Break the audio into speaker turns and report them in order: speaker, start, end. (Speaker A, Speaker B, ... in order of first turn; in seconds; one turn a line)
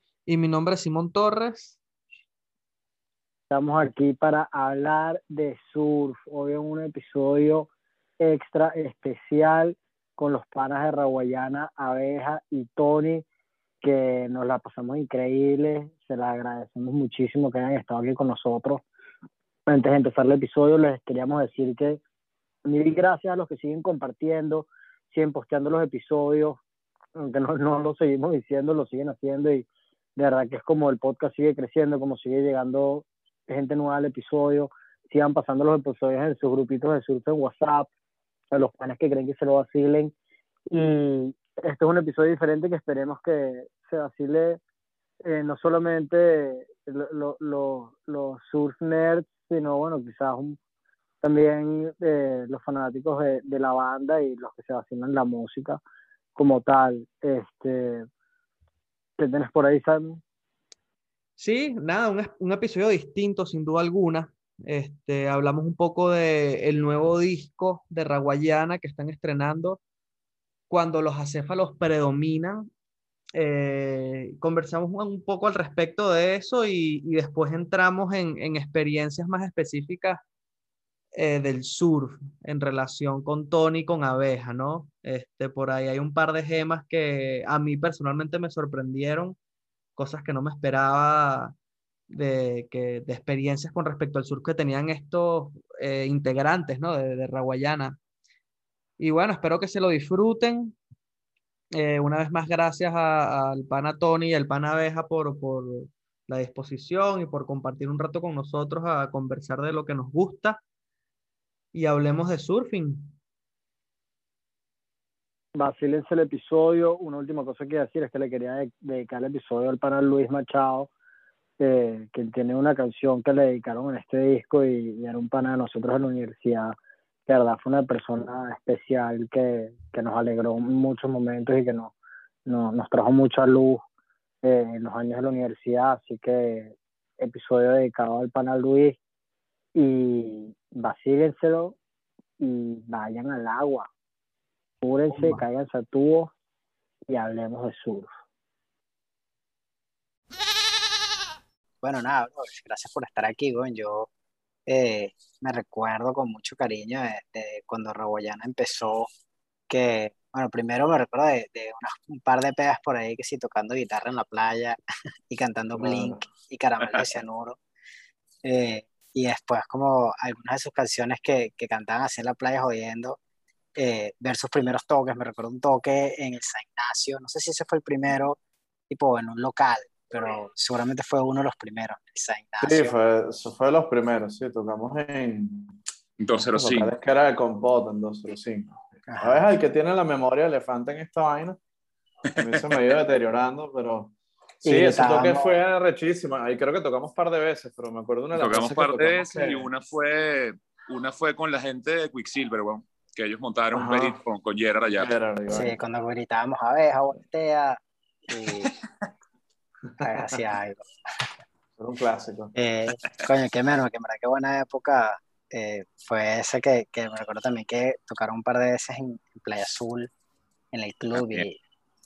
Speaker A: 0.3-1.8
Speaker B: 3.5-13.2
Speaker B: 13.8-18.8
Speaker B: 19.7-22.0
Speaker B: 22.6-26.6
Speaker B: 27.2-37.9
Speaker B: 38.5-40.1
Speaker B: 40.7-44.6
Speaker B: 45.2-50.6
Speaker B: 51.2-55.8
Speaker B: 56.3-58.1
Speaker B: 59.2-60.2
Speaker A: 61.4-69.8
Speaker A: 70.7-72.7
Speaker A: 73.3-80.2
Speaker A: 81.1-89.4
Speaker A: 90.0-91.5
Speaker A: 92.1-98.0
Speaker A: 99.0-100.8
Speaker A: 101.7-110.6
Speaker A: 111.7-113.2
Speaker B: 115.6-120.9
Speaker B: 121.6-126.8
Speaker B: 127.3-131.9
Speaker B: 132.4-133.8
Speaker B: 134.4-139.0
Speaker B: 139.7-141.8
Speaker B: 142.4-143.9
Speaker B: 144.8-146.3
Speaker C: 145.1-145.4
Speaker B: 147.1-148.1
Speaker D: 151.8-154.1
Speaker D: 154.7-159.1
Speaker D: 159.7-164.8
Speaker D: 165.3-167.6
Speaker C: 165.8-166.3
Speaker D: 168.4-173.2
Speaker D: 173.8-178.4
Speaker D: 178.9-182.9
Speaker C: 182.6-185.8
Speaker E: 186.2-186.9
Speaker C: 186.5-191.6
Speaker D: 189.1-189.5
Speaker E: 192.3-192.8
Speaker C: 192.4-199.7
Speaker D: 194.6-195.6
Speaker E: 198.3-205.1
Speaker C: 203.7-204.2
Speaker C: 204.9-205.8
Speaker D: 205.5-208.7
Speaker C: 209.9-210.3
Speaker D: 210.0-210.8
Speaker C: 211.8-212.5
Speaker D: 212.6-220.1
Speaker D: 220.7-221.6
Speaker E: 221.1-221.4